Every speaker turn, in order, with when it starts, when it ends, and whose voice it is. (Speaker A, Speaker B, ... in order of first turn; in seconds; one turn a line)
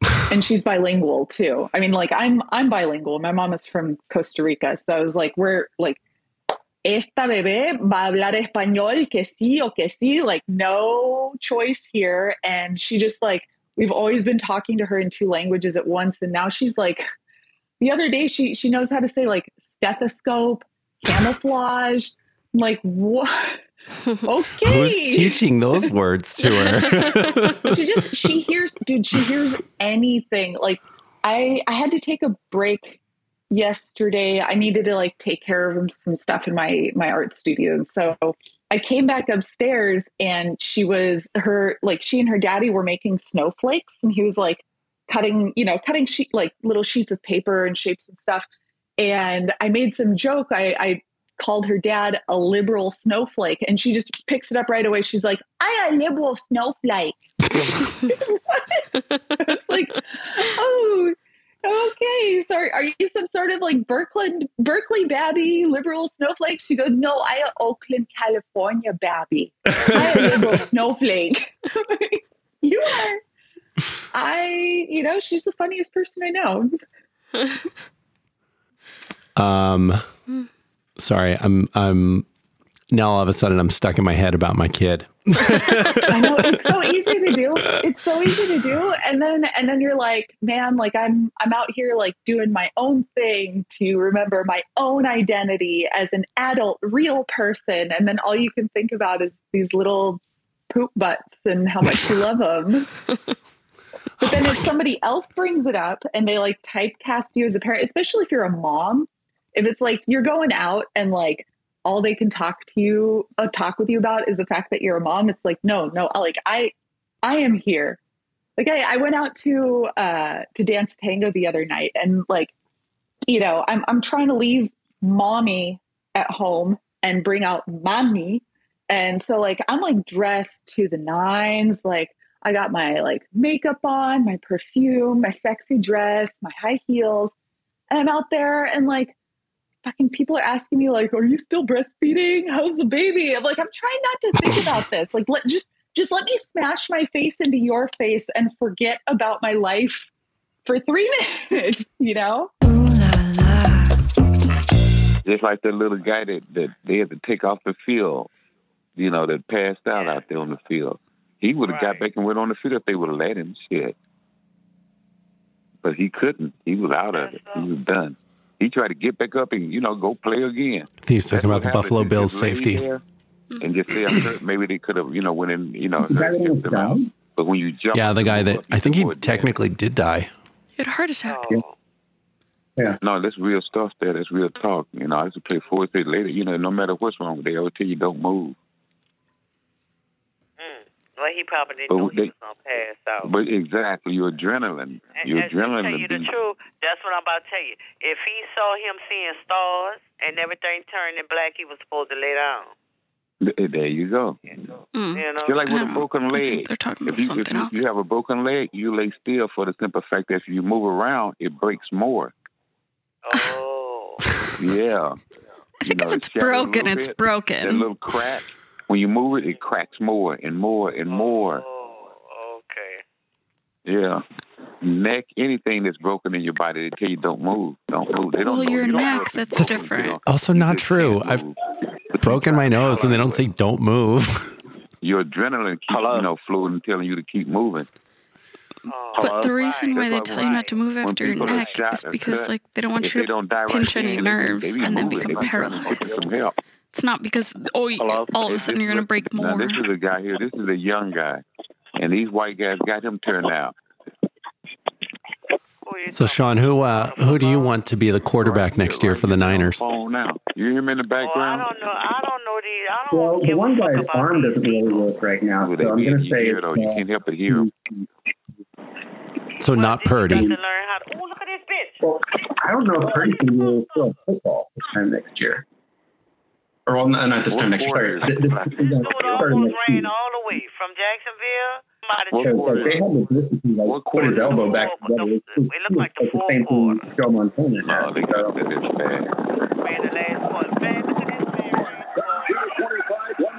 Speaker A: 0.3-6.0
Speaker A: 6.8-17.1
Speaker A: 17.8-23.6
Speaker A: 24.2-25.4
Speaker B: 24.6-27.7
Speaker A: 27.7-33.0
Speaker A: 33.5-48.5
Speaker A: 49.0-57.2
Speaker A: 58.0-58.8
Speaker A: 59.4-73.2
Speaker A: 74.1-76.8
Speaker B: 79.4-80.0
Speaker B: 81.0-82.3
Speaker B: 82.9-86.7
Speaker A: 86.1-102.9
Speaker A: 104.2-116.7
Speaker A: 117.2-118.0
Speaker A: 118.6-122.5
Speaker A: 123.3-137.3
Speaker A: 137.9-139.2
Speaker A: 139.8-150.1
Speaker A: 150.7-152.5
Speaker C: 155.2-158.3
Speaker C: 159.0-164.0
Speaker D: 159.9-160.2
Speaker D: 161.6-162.1
Speaker C: 165.8-173.0
Speaker D: 167.1-167.7
Speaker B: 171.0-172.9
Speaker C: 173.6-179.5
Speaker E: 176.0-177.1
Speaker B: 177.9-180.3
Speaker F: 180.8-181.4
Speaker D: 181.3-181.7
Speaker C: 183.0-188.6
Speaker D: 190.6-193.3
Speaker C: 191.9-192.3
Speaker C: 193.2-196.3
Speaker D: 195.1-202.7
Speaker C: 203.4-204.4
Speaker F: 204.9-207.8
Speaker D: 205.2-205.6
Speaker C: 205.4-212.3
Speaker D: 213.2-214.2
Speaker C: 214.6-215.2
Speaker F: 215.8-217.9
Speaker C: 215.8-221.6
Speaker D: 221.1-223.0
Speaker C: 223.9-224.2
Speaker C: 224.8-231.6
Speaker F: 228.4-230.2
Speaker B: 230.3-231.5
Speaker C: 232.1-233.4
Speaker B: 232.2-234.5
Speaker C: 235.0-237.9
Speaker D: 238.9-240.8
Speaker F: 239.2-246.2
Speaker C: 239.3-246.5
Speaker D: 241.3-241.8
Speaker F: 246.9-249.9
Speaker C: 248.1-251.4
Speaker C: 252.0-253.7
Speaker D: 255.8-257.9
Speaker B: 256.1-259.8
Speaker C: 258.4-261.7
Speaker D: 261.2-265.1
Speaker E: 263.1-268.1
Speaker C: 265.6-267.7
Speaker B: 269.6-270.5
Speaker D: 269.6-272.1
Speaker E: 272.0-275.6
Speaker D: 273.0-274.1
Speaker E: 276.9-280.1
Speaker C: 277.5-279.5
Speaker D: 278.8-283.1
Speaker C: 282.3-283.1
Speaker E: 282.4-288.6
Speaker C: 283.9-284.7
Speaker D: 284.4-287.1
Speaker C: 287.8-289.3
Speaker D: 289.8-292.7